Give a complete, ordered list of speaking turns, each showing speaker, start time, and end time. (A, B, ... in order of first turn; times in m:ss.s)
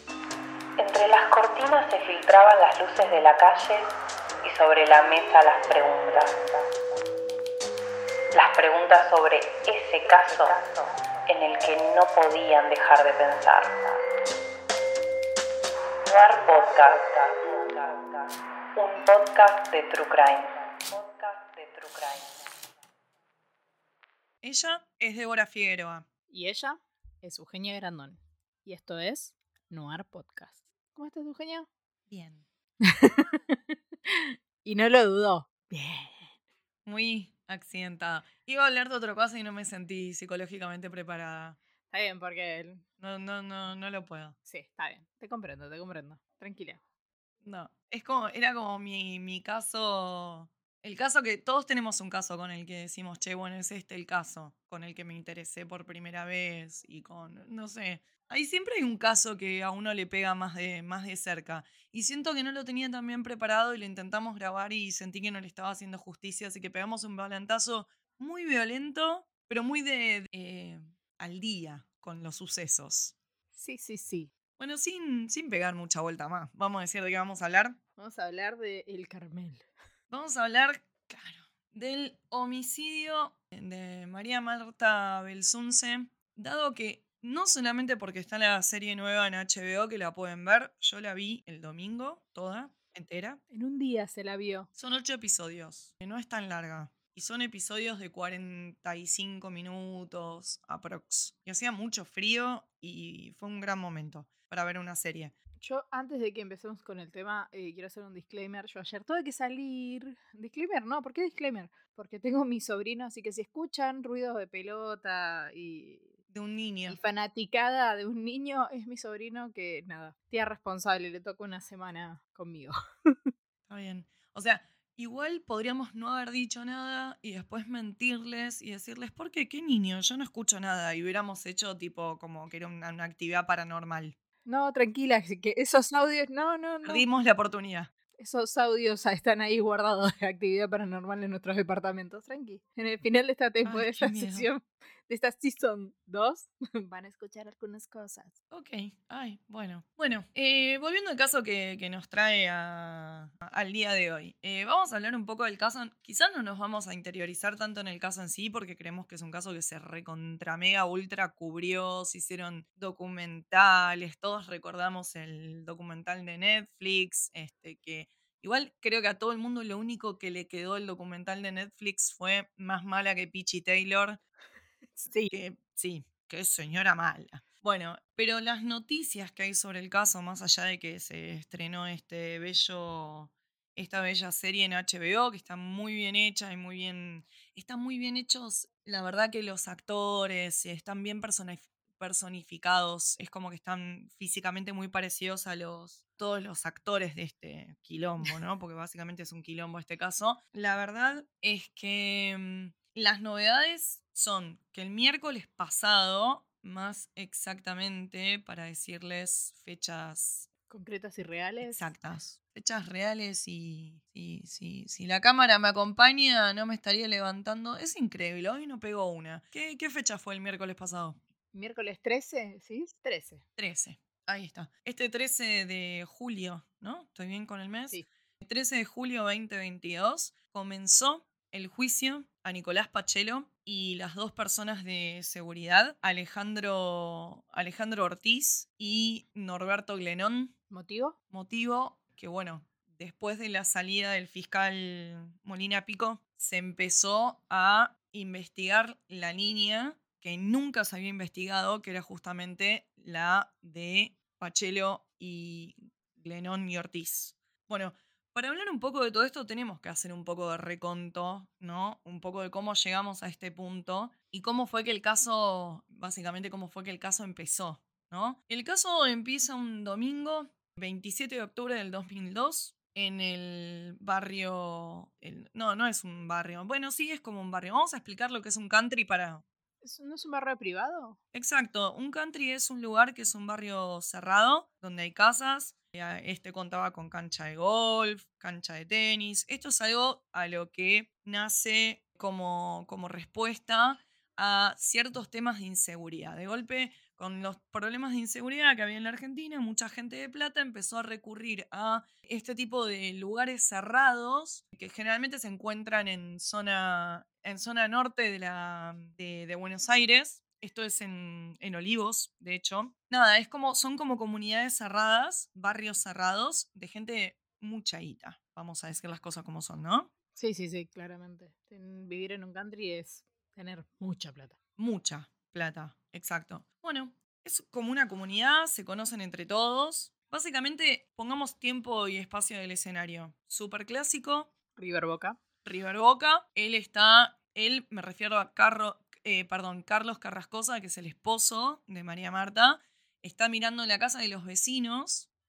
0:00.8-0:03.9 A
0:04.4-0:06.6 A
0:08.3-0:14.0 A
0:16.0-0:22.5 A
0:24.4-0:26.0 B
0:26.3-0:31.7 C
0:32.1-0:32.4 B
0:32.8-0:36.3 C
0:36.8-0:41.6 B
0:41.9-0:42.8 C
0:43.0-0:44.4 B
0:44.5-0:46.8 C
0:47.4-1:13.1 B
1:13.5-1:14.3 C
1:14.6-1:17.8 B
1:18.0-1:19.6 C
1:20.1-1:33.4 B
1:33.5-1:34.7 C
1:34.8-1:45.3 B
1:45.6-1:56.1 C
1:56.3-1:57.0 B
1:56.9-2:03.2 C
2:03.7-2:14.1 B
2:14.4-2:17.0 C
2:16.8-2:17.9 B
2:18.2-2:28.3 C
2:23.6-2:24.5 B
2:28.5-2:54.2 B
2:55.0-2:55.3 C
2:55.3-3:30.5 B
3:30.7-3:31.9 C
3:31.6-3:41.2 B
3:41.5-3:43.4 C
3:43.6-4:00.5 B
4:00.7-4:01.2 C
4:01.3-4:39.4 B
4:39.8-4:41.2 C
4:41.3-5:20.1 B
5:20.4-5:24.6 C
5:24.8-5:34.5 B
5:34.8-5:35.4 C
5:35.6-5:45.3 B